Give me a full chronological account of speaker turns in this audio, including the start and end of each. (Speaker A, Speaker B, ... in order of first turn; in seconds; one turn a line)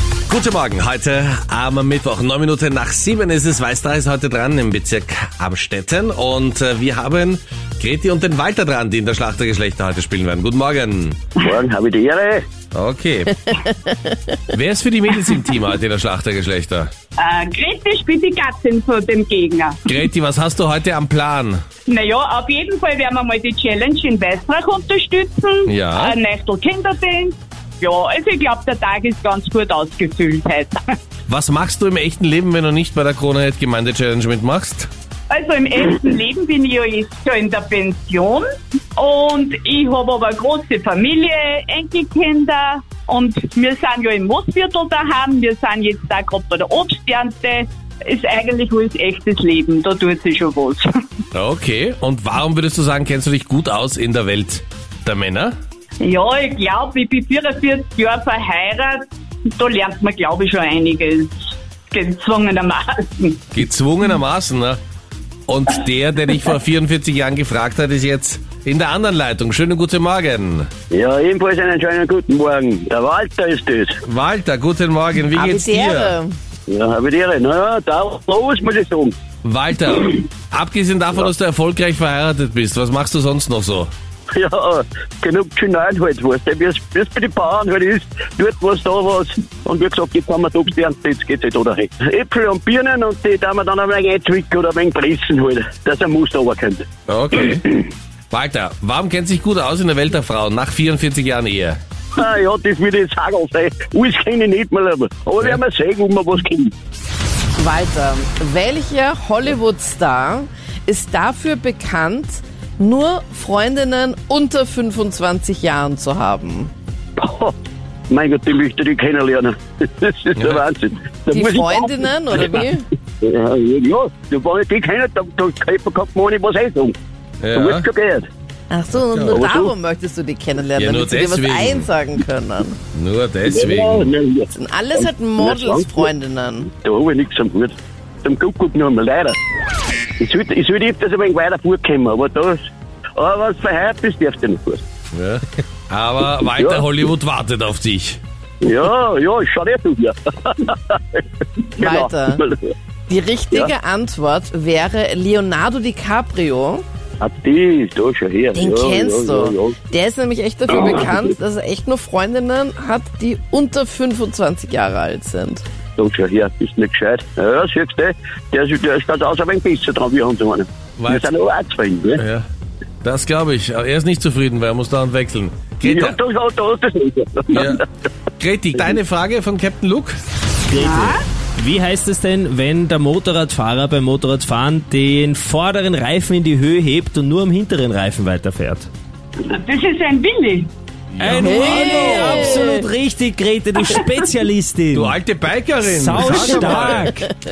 Speaker A: 0.3-11.2
Speaker B: 11.4-12.4
Speaker A: 12.7-13.4
Speaker C: 13.6-14.2
Speaker A: 14.5-16.9
Speaker D: 17.2-19.9
Speaker A: 19.9-21.6
Speaker D: 21.9-30.8
Speaker A: 25.7-26.1
Speaker A: 31.3-34.9
Speaker D: 35.3-38.5
Speaker D: 39.0-50.8
Speaker A: 51.3-55.5
Speaker D: 56.0-59.0
Speaker D: 59.6-63.5
Speaker A: 63.5-64.8
Speaker A: 65.5-70.7
Speaker B: 70.9-74.0
Speaker A: 74.0-76.1
Speaker C: 75.3-76.3
Speaker B: 76.7-79.1
Speaker A: 79.4-83.9
Speaker B: 84.3-96.8
Speaker A: 97.1-101.8
Speaker B: 102.2-106.7
Speaker C: 107.6-116.7
Speaker B: 117.2-117.5
Speaker B: 118.1-122.7
Speaker C: 121.3-122.8
Speaker B: 123.2-127.0
Speaker A: 127.4-127.8
Speaker B: 127.5-128.3
Speaker C: 128.7-132.8
Speaker A: 129.0-129.4
Speaker B: 129.3-129.7
Speaker A: 130.8-131.9
Speaker A: 132.9-134.1
Speaker B: 133.5-136.1
Speaker C: 134.5-136.7
Speaker B: 136.8-139.4
Speaker B: 140.2-142.6
Speaker B: 143.2-144.8
Speaker A: 145.1-148.2
Speaker B: 146.5-146.8
Speaker B: 148.6-151.2
Speaker B: 151.8-152.6
Speaker C: 151.8-152.4
Speaker C: 153.1-156.8
Speaker B: 157.2-159.8
Speaker C: 158.5-165.6
Speaker B: 166.0-172.2
Speaker A: 171.0-171.3
Speaker A: 172.2-172.4
Speaker A: 173.0-176.2
Speaker B: 175.8-177.8
Speaker A: 177.5-177.8
Speaker A: 178.4-180.2
Speaker E: 180.7-188.9
Speaker D: 180.7-181.2
Speaker D: 189.4-190.7
Speaker A: 191.2-192.3
Speaker E: 191.2-195.2
Speaker C: 191.2-192.9
Speaker A: 194.9-197.2
Speaker E: 195.8-197.3